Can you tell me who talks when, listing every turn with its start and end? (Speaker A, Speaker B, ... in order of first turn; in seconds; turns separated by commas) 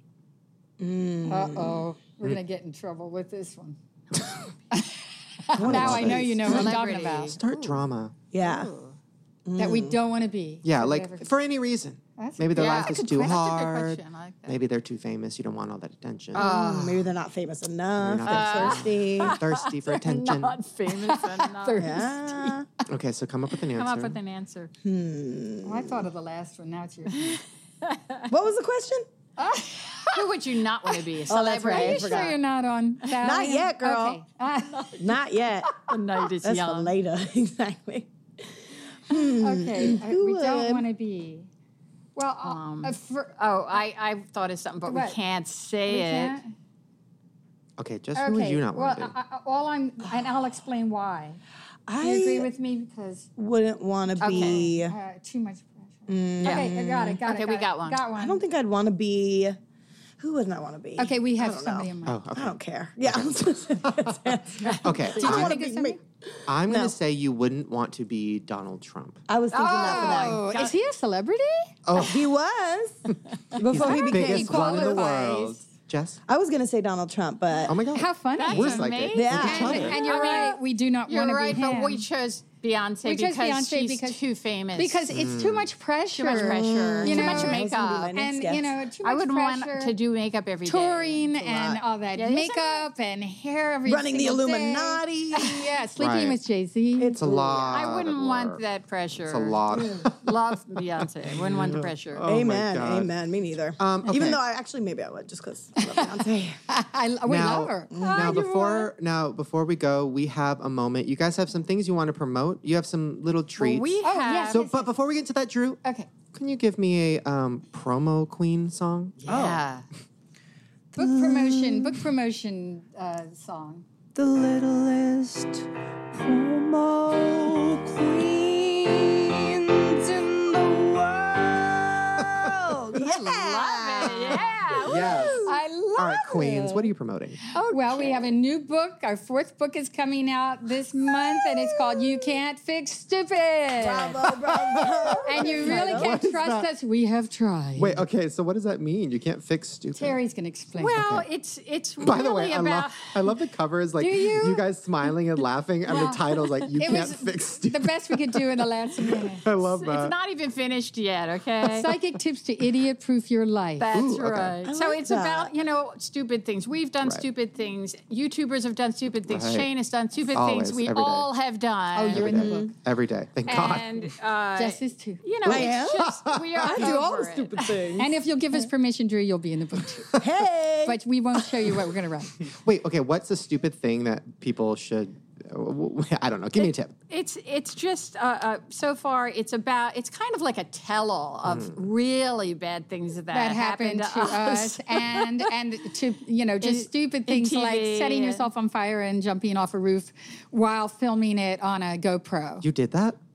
Speaker A: 0.8-1.9, Speaker B: 1.3-3.8, Speaker C: 4.2-4.4, Speaker B: 4.7-7.4, Speaker A: 5.5-6.7, Speaker C: 5.6-8.1, Speaker D: 6.4-7.9, Speaker A: 8.3-8.7, Speaker D: 8.4-8.9, Speaker A: 9.4-10.0, Speaker B: 9.6-11.3, Speaker C: 10.6-16.5, Speaker B: 12.2-13.0, Speaker D: 12.5-14.6, Speaker D: 16.3-17.1, Speaker A: 16.3-19.4, Speaker C: 18.0-20.6, Speaker D: 18.2-21.9, Speaker B: 20.9-22.6, Speaker A: 21.8-22.7, Speaker C: 22.9-24.2, Speaker D: 23.7-24.7, Speaker A: 24.8-26.1, Speaker B: 25.6-27.4, Speaker D: 27.9-28.2, Speaker A: 28.3-29.1, Speaker B: 29.4-30.3, Speaker D: 30.1-32.4, Speaker A: 31.3-32.4, Speaker B: 31.7-35.2, Speaker A: 33.0-34.2, Speaker A: 35.0-35.8, Speaker D: 35.8-36.9, Speaker A: 36.4-40.9, Speaker B: 39.2-41.5, Speaker B: 42.2-43.4, Speaker D: 42.4-46.4, Speaker B: 44.8-45.2, Speaker B: 45.9-46.4, Speaker C: 47.8-49.1, Speaker B: 48.2-51.4, Speaker A: 51.9-52.5, Speaker B: 52.0-53.3, Speaker A: 53.4-55.0, Speaker D: 54.2-54.7, Speaker B: 54.2-58.4, Speaker A: 56.1-57.2, Speaker D: 56.4-58.0, Speaker A: 58.1-59.6, Speaker A: 60.2-66.9, Speaker B: 61.0-62.2, Speaker C: 62.0-65.6, Speaker B: 64.6-66.0, Speaker C: 66.5-69.2, Speaker A: 69.3-70.4, Speaker B: 69.5-71.7, Speaker D: 69.8-70.8, Speaker C: 71.9-72.3, Speaker A: 72.0-73.0, Speaker A: 73.5-75.1, Speaker C: 73.6-76.2, Speaker B: 73.6-75.6, Speaker A: 76.3-77.8, Speaker C: 77.7-80.0, Speaker B: 77.9-82.0, Speaker D: 78.4-85.0, Speaker A: 79.1-80.0, Speaker B: 83.0-84.2, Speaker B: 84.8-89.9, Speaker C: 85.1-85.7, Speaker D: 86.2-88.1, Speaker A: 86.3-88.7, Speaker D: 89.0-91.3, Speaker B: 90.6-97.2, Speaker A: 91.4-91.8, Speaker D: 92.2-92.9, Speaker A: 93.9-95.8, Speaker C: 96.0-96.4, Speaker A: 97.0-97.8, Speaker C: 97.1-98.6, Speaker D: 97.7-102.3, Speaker C: 99.3-103.1, Speaker A: 102.3-106.6, Speaker C: 103.8-104.4, Speaker B: 105.8-108.9, Speaker C: 107.3-115.8, Speaker A: 107.9-108.4, Speaker D: 113.6-114.7, Speaker B: 114.0-114.8, Speaker B: 115.8-116.1, Speaker C: 116.3-119.2, Speaker D: 119.2-119.9, Speaker E: 119.3-119.6, Speaker E: 120.9-122.1, Speaker B: 121.0-123.8, Speaker E: 124.1-133.0, Speaker C: 132.2-132.6, Speaker A: 132.9-135.6, Speaker D: 132.9-135.4, Speaker C: 134.8-135.4, Speaker B: 135.4-136.6, Speaker C: 135.9-137.4, Speaker A: 136.3-136.9, Speaker D: 137.5-138.3, Speaker B: 137.6-144.3, Speaker A: 141.4-142.4, Speaker A: 143.8-146.3, Speaker C: 144.5-146.7, Speaker B: 145.2-148.0, Speaker C: 147.8-150.2, Speaker B: 149.9-151.0, Speaker D: 150.8-153.2, Speaker C: 150.9-151.3, Speaker C: 152.0-160.1, Speaker B: 154.0-154.6, Speaker B: 155.9-159.5, Speaker D: 159.5-161.9, Speaker B: 161.7-163.9, Speaker D: 163.8-172.4, Speaker C: 163.9-164.6, Speaker A: 164.6-165.5, Speaker C: 167.0-167.3, Speaker C: 169.3-169.7, Speaker C: 170.3-171.3, Speaker B: 171.9-172.7, Speaker C: 172.1-174.1, Speaker A: 172.2-172.7, Speaker D: 173.4-178.0, Speaker B: 174.6-175.6, Speaker A: 175.4-176.1, Speaker C: 176.0-177.1, Speaker B: 176.6-180.2, Speaker A: 180.2-181.0, Speaker B: 180.8-182.5, Speaker C: 182.4-186.9, Speaker D: 187.1-195.5, Speaker C: 191.4-191.8, Speaker B: 193.3-202.7, Speaker D: 196.6-198.4, Speaker C: 202.6-203.2